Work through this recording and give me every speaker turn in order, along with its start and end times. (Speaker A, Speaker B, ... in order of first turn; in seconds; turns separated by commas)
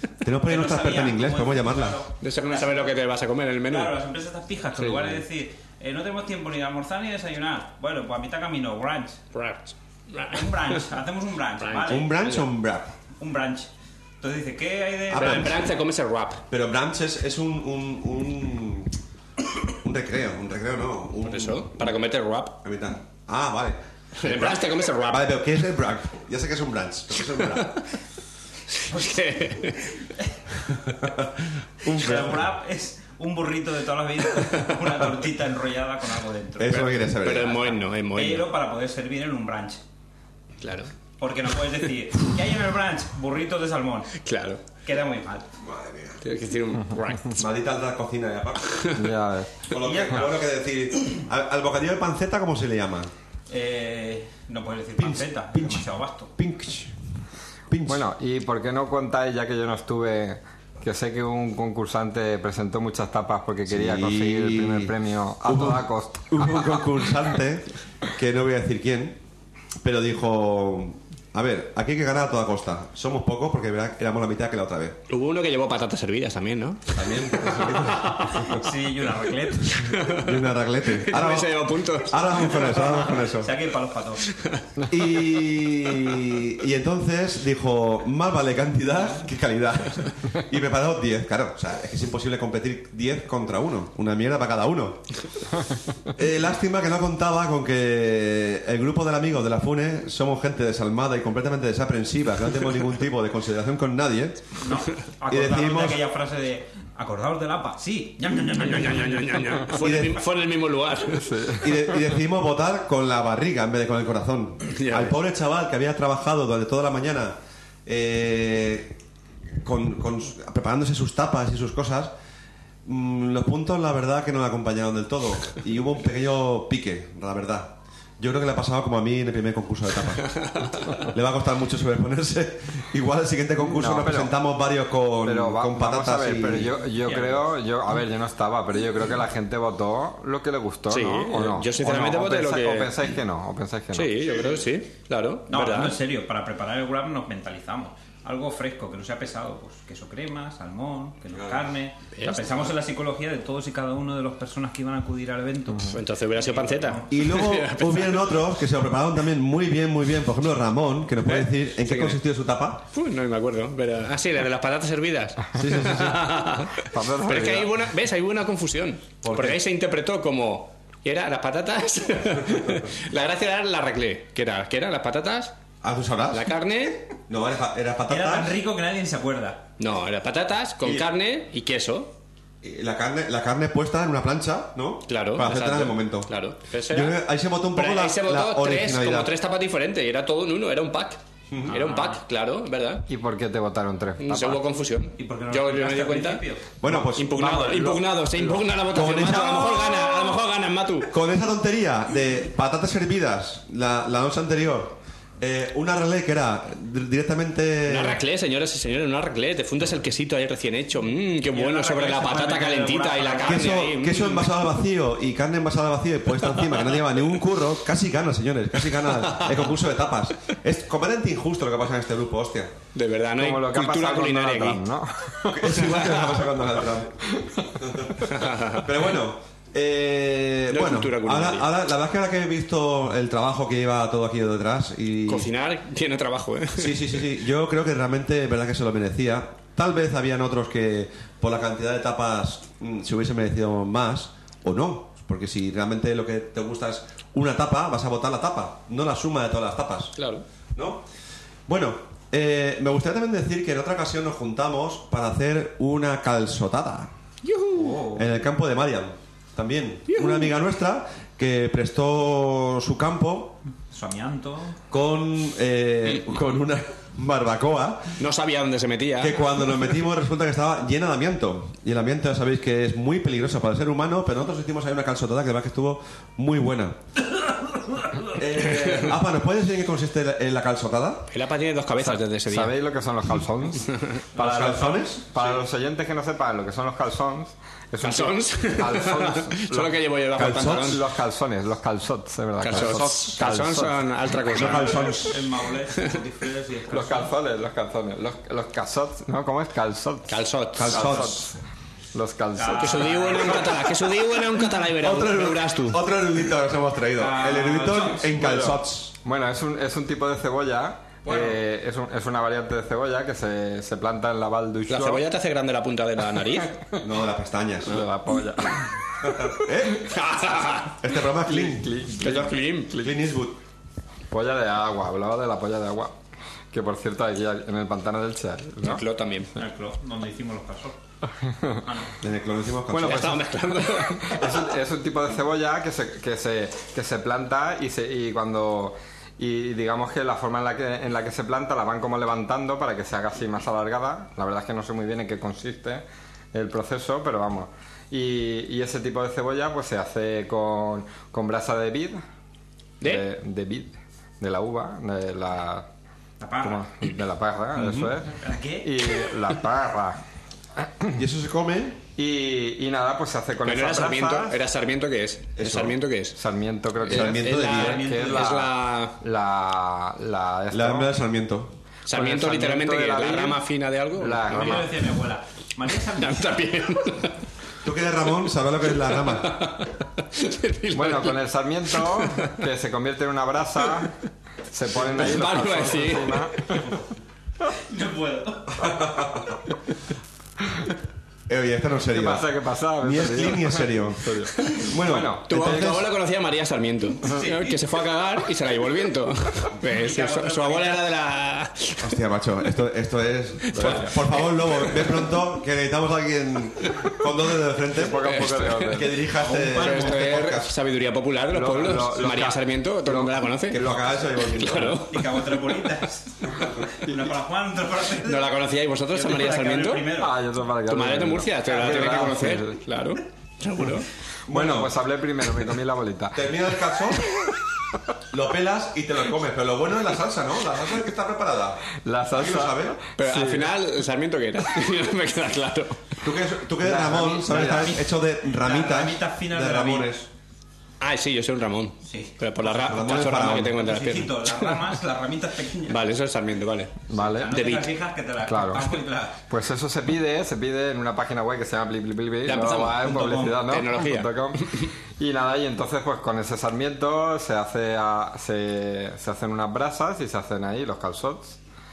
Speaker A: 0.2-2.0, Speaker B: 0.5-3.0, Speaker C: 2.2-4.0, Speaker B: 3.7-9.2, Speaker C: 4.8-5.2, Speaker C: 9.3-10.6, Speaker B: 10.3-12.3, Speaker C: 11.7-12.4, Speaker A: 11.9-12.9, Speaker B: 13.2-13.7, Speaker B: 14.2-15.6, Speaker A: 15.1-15.6, Speaker C: 15.2-16.4, Speaker A: 16.5-18.9, Speaker A: 19.8-21.9, Speaker C: 21.2-22.6, Speaker A: 22.6-27.8, Speaker C: 24.2-25.3, Speaker C: 28.7-29.9, Speaker A: 30.9-32.5, Speaker B: 31.9-36.9, Speaker A: 36.6-37.8, Speaker C: 36.7-38.5, Speaker B: 38.1-39.8, Speaker C: 40.6-40.9, Speaker B: 41.2-44.2, Speaker C: 44.2-44.6, Speaker B: 44.8-45.5, Speaker A: 45.6-46.2, Speaker C: 46.2-47.4, Speaker A: 47.3-48.8, Speaker C: 48.8-49.0, Speaker D: 49.0-49.6, Speaker A: 49.7-53.1, Speaker B: 49.8-50.5, Speaker B: 53.5-56.3, Speaker A: 55.0-56.9, Speaker A: 57.7-58.0, Speaker D: 57.9-67.0, Speaker A: 63.7-69.2, Speaker A: 69.8-75.0, Speaker C: 75.1-78.6, Speaker A: 76.9-78.6, Speaker B: 78.5-79.9, Speaker C: 79.6-83.1, Speaker A: 80.1-83.5, Speaker B: 83.3-84.2, Speaker C: 84.2-86.2, Speaker A: 84.9-95.2, Speaker A: 96.1-104.4, Speaker B: 104.6-109.3, Speaker A: 105.3-106.0, Speaker C: 108.6-111.5, Speaker A: 109.7-110.2, Speaker D: 111.1-112.2, Speaker A: 111.6-117.3, Speaker C: 114.7-115.2, Speaker A: 117.9-119.0, Speaker A: 119.6-122.1, Speaker A: 122.8-136.8, Speaker D: 133.6-134.3, Speaker D: 135.2-144.2, Speaker B: 137.0-137.4, Speaker C: 140.9-143.0, Speaker C: 143.9-146.0, Speaker B: 145.5-157.2, Speaker A: 151.3-151.6, Speaker C: 152.2-152.7, Speaker C: 155.9-158.4, Speaker A: 157.1-162.8, Speaker C: 161.2-162.2, Speaker C: 162.9-175.6, Speaker A: 165.6-166.2, Speaker D: 166.8-167.7, Speaker A: 169.2-169.6, Speaker A: 172.4-172.9, Speaker A: 175.8-176.5, Speaker C: 176.3-177.1, Speaker A: 177.3-178.6, Speaker B: 178.1-179.7, Speaker C: 179.8-182.1, Speaker A: 182.6-186.3, Speaker C: 185.1-187.2, Speaker A: 186.9-189.3, Speaker C: 187.7-193.1, Speaker A: 191.5-191.8, Speaker B: 191.7-192.2, Speaker D: 193.1-194.6, Speaker C: 194.2-201.1, Speaker B: 195.2-196.7, Speaker A: 196.8-197.8, Speaker D: 197.4-198.5, Speaker A: 198.9-200.4, Speaker A: 201.1-208.2, Speaker C: 207.9-214.7, Speaker B: 211.5-213.8, Speaker A: 213.5-222.7, Speaker C: 216.5-217.0, Speaker C: 219.0-219.7, Speaker C: 222.9-224.8, Speaker D: 223.4-225.9, Speaker A: 225.5-235.5, Speaker C: 225.8-226.4, Speaker D: 227.3-227.7, Speaker C: 228.3-228.8, Speaker C: 230.7-231.7, Speaker C: 235.3-237.3, Speaker A: 236.8-250.2, Speaker C: 250.2-250.4, Speaker A: 250.8-251.1, Speaker A: 251.7-257.1, Speaker C: 257.4-258.0, Speaker B: 257.7-258.3, Speaker A: 258.2-263.6, Speaker C: 260.1-260.5, Speaker B: 263.9-264.8, Speaker A: 264.9-268.2, Speaker C: 268.2-269.7, Speaker A: 269.2-277.0, Speaker A: 278.4-281.3, Speaker C: 278.8-279.1, Speaker C: 281.3-282.8, Speaker D: 282.0-290.0, Speaker B: 284.4-285.1, Speaker A: 284.4-285.5, Speaker C: 288.0-291.0, Speaker A: 290.4-291.0, Speaker D: 290.7-294.0, Speaker C: 292.6-295.4, Speaker A: 292.7-293.4, Speaker A: 294.5-295.4, Speaker B: 294.6-297.3, Speaker D: 296.9-301.6, Speaker C: 300.3-301.3, Speaker A: 300.7-301.5, Speaker D: 302.1-303.6, Speaker B: 302.6-304.0, Speaker C: 302.7-306.0, Speaker A: 305.0-309.1, Speaker B: 307.2-308.4, Speaker D: 308.3-315.2, Speaker B: 311.2-311.6, Speaker C: 314.9-316.8, Speaker D: 316.6-317.1, Speaker A: 317.0-318.0, Speaker D: 317.9-319.6, Speaker A: 319.2-320.2, Speaker C: 320.0-321.0, Speaker A: 320.9-323.6, Speaker D: 321.4-323.2, Speaker C: 322.2-323.1, Speaker D: 324.3-326.2, Speaker D: 326.7-329.0, Speaker C: 328.8-329.5, Speaker B: 329.6-331.0, Speaker D: 331.4-331.8, Speaker B: 331.8-332.1, Speaker A: 332.2-333.4, Speaker D: 332.9-352.2, Speaker C: 332.9-334.5, Speaker D: 353.0-355.9, Speaker B: 356.4-356.8, Speaker D: 356.6-360.2, Speaker A: 357.8-358.1, Speaker B: 358.3-358.9, Speaker D: 360.8-361.1, Speaker A: 361.1-362.0, Speaker D: 362.2-364.6, Speaker C: 363.6-366.4, Speaker A: 365.6-366.0, Speaker D: 366.3-371.1, Speaker A: 367.0-368.0, Speaker C: 367.0-369.2, Speaker B: 367.6-368.5, Speaker A: 370.7-371.7, Speaker C: 372.1-374.9, Speaker D: 372.1-373.6, Speaker D: 374.2-374.9, Speaker B: 374.5-376.9, Speaker C: 376.1-377.4, Speaker A: 377.8-379.7, Speaker C: 378.9-381.4, Speaker D: 380.9-384.2, Speaker C: 381.9-382.6, Speaker D: 384.7-386.9, Speaker C: 385.0-386.6, Speaker B: 387.6-389.2, Speaker A: 388.8-389.6, Speaker A: 391.5-396.1, Speaker D: 392.1-396.0, Speaker C: 394.6-394.9, Speaker C: 395.4-402.2, Speaker B: 397.2-397.8, Speaker B: 399.9-401.0, Speaker A: 402.0-410.7, Speaker C: 403.7-405.4, Speaker D: 403.7-404.2, Speaker C: 406.8-407.3, Speaker D: 407.9-409.2, Speaker C: 408.2-415.4, Speaker B: 409.4-410.2, Speaker D: 411.5-414.2, Speaker A: 413.7-415.1, Speaker B: 415.1-418.6, Speaker C: 418.2-420.1, Speaker B: 419.1-420.4, Speaker D: 420.2-422.8, Speaker C: 420.9-424.1, Speaker A: 424.5-424.9, Speaker D: 424.5-427.2, Speaker A: 426.3-427.3, Speaker A: 428.3-433.0, Speaker D: 432.0-433.8, Speaker C: 433.2-436.2, Speaker A: 436.2-440.3, Speaker D: 436.8-438.0, Speaker B: 437.5-440.1, Speaker C: 441.0-444.8, Speaker B: 442.1-442.3, Speaker A: 442.6-443.8, Speaker B: 443.5-446.0, Speaker C: 445.9-447.9, Speaker D: 447.1-447.5, Speaker B: 447.2-449.4, Speaker D: 448.4-461.6, Speaker C: 452.4-454.9, Speaker B: 453.1-453.5